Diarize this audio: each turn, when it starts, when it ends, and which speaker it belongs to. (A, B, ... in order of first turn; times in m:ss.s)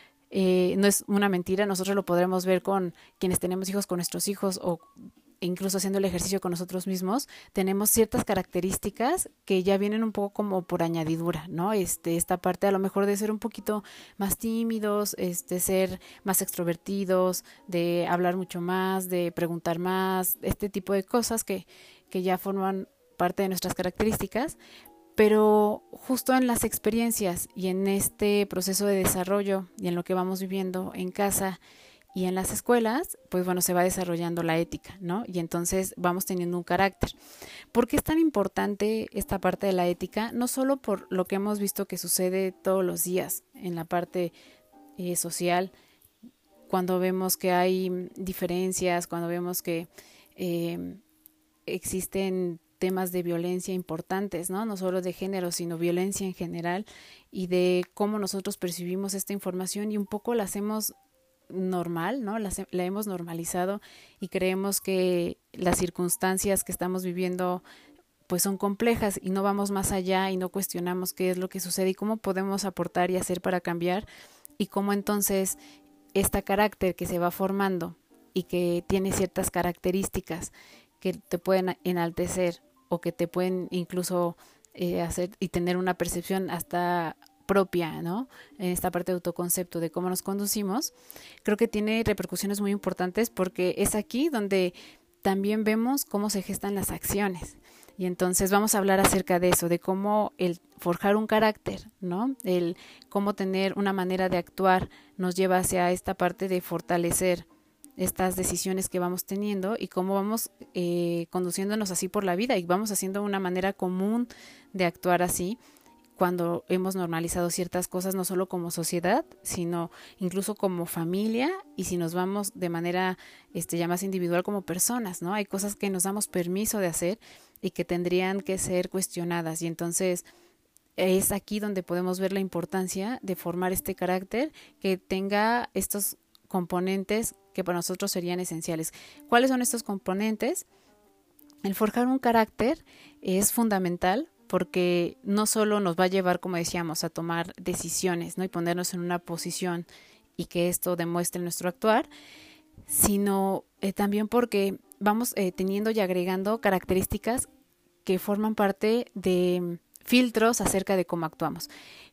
0:00.3-0:04.8 A
0:05.4-0:24.6 A
0:25.2-0:31.6 A
0:32.1-0:37.2 A
0:37.7-0:44.3 A
0:45.0-0:45.7 A
0:46.7-0:51.0 A
0:51.7-1:00.9 A
1:01.5-1:07.6 A
1:08.3-1:14.1 A
1:14.6-1:15.6 A
1:16.2-1:47.5 A
1:48.0-1:55.6 A
1:56.2-2:10.2 A
2:11.0-2:20.7 A
2:21.6-2:29.9 A
2:30.4-2:32.1 A
2:32.9-2:37.5 A
2:38.0-2:41.7 A